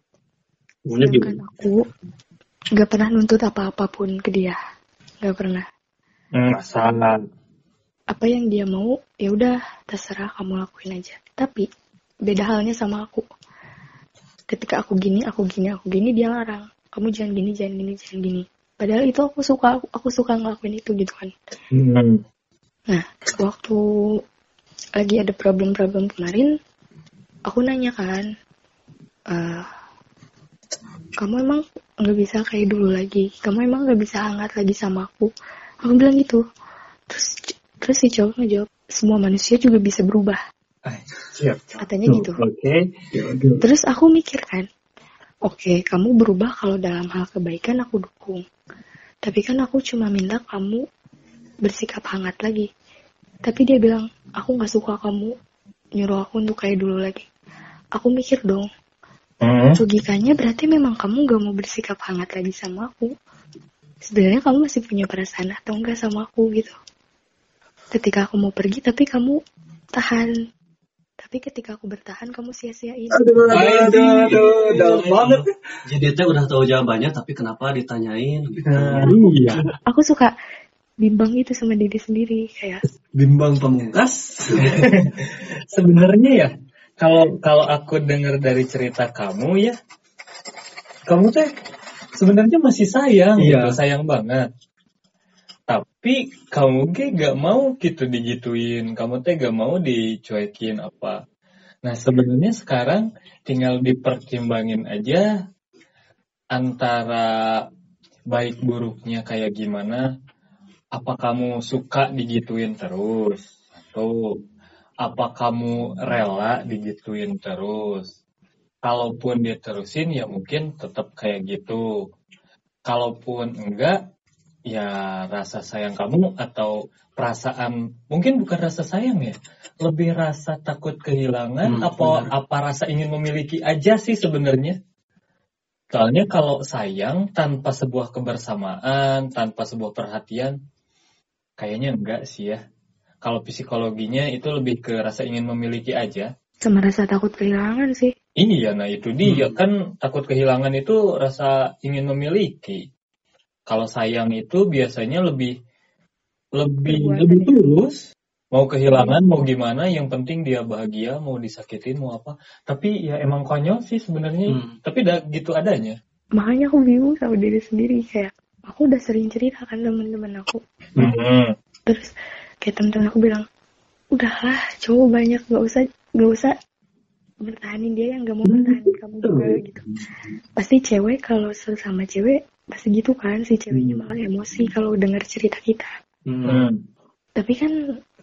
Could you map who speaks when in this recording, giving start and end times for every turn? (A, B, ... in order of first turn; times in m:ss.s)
0:00.9-0:01.4 A
0:00.9-0:01.8 B
0:02.8-0:04.6 B
0:05.2-0:05.6 B
0:06.4-0:07.2 C
0:08.1-0:11.6 B
0:12.3-0:13.2 B
0:14.5-0:21.3 B
0:21.7-0:22.2 C
0:22.9-0:23.8 B
0:25.0-0:26.5 B
0:27.5-0:28.3 B
0:29.3-0:29.6 B
0:31.2-0:35.3 B
0:35.8-0:36.4 B
0:37.1-0:40.4 B
0:40.9-0:42.8 C
0:41.8-0:42.4 B
0:43.1-0:43.6 D
0:43.6-0:44.7 B
0:45.4-0:48.4 B
0:49.2-0:50.8 B
0:51.6-0:52.7 B
0:53.4-0:55.3 B
0:56.0-0:57.2 B
0:58.0-0:58.7 B
0:59.4-0:59.8 C
0:59.8-1:03.1 B
1:04.1-1:06.7 B
1:07.9-1:09.4 B
1:10.0-1:10.3 B
1:11.2-1:13.3 B
1:13.1-1:15.4 D
1:13.5-1:15.3 C
1:13.5-1:19.2 A
1:18.7-1:19.6 C
1:18.8-1:19.7 D
1:19.9-1:20.3 B
1:21.0-1:22.8 B
1:23.1-1:24.9 D
1:24.6-1:29.8 C
1:31.1-1:31.5 C
1:32.2-1:34.4 C
1:33.4-1:33.8 D
1:35.7-1:41.2 C
1:41.8-1:45.3 C
1:46.5-1:47.6 C
1:48.3-1:50.0 C
1:50.9-1:54.4 C
1:55.0-1:58.1 C
1:58.8-2:01.8 C
2:02.9-2:04.0 C
2:04.7-2:14.8 C
2:11.6-2:12.3 D
2:15.9-2:20.5 C
2:21.6-2:22.6 C
2:23.2-2:26.3 C
2:26.6-2:28.1 B
2:28.4-2:32.8 C
2:33.7-2:35.5 C
2:36.6-2:46.0 C
2:36.8-2:37.6 B
2:44.5-2:44.7 D
2:46.4-2:50.6 B
2:51.0-2:51.5 C
2:52.6-2:53.4 B
2:54.1-2:56.5 B
2:57.4-2:59.8 B
2:58.4-2:59.6 D
3:00.6-3:05.9 B
3:03.7-3:04.1 D
3:06.3-3:06.7 D
3:06.4-3:06.8 C
3:07.4-3:07.7 B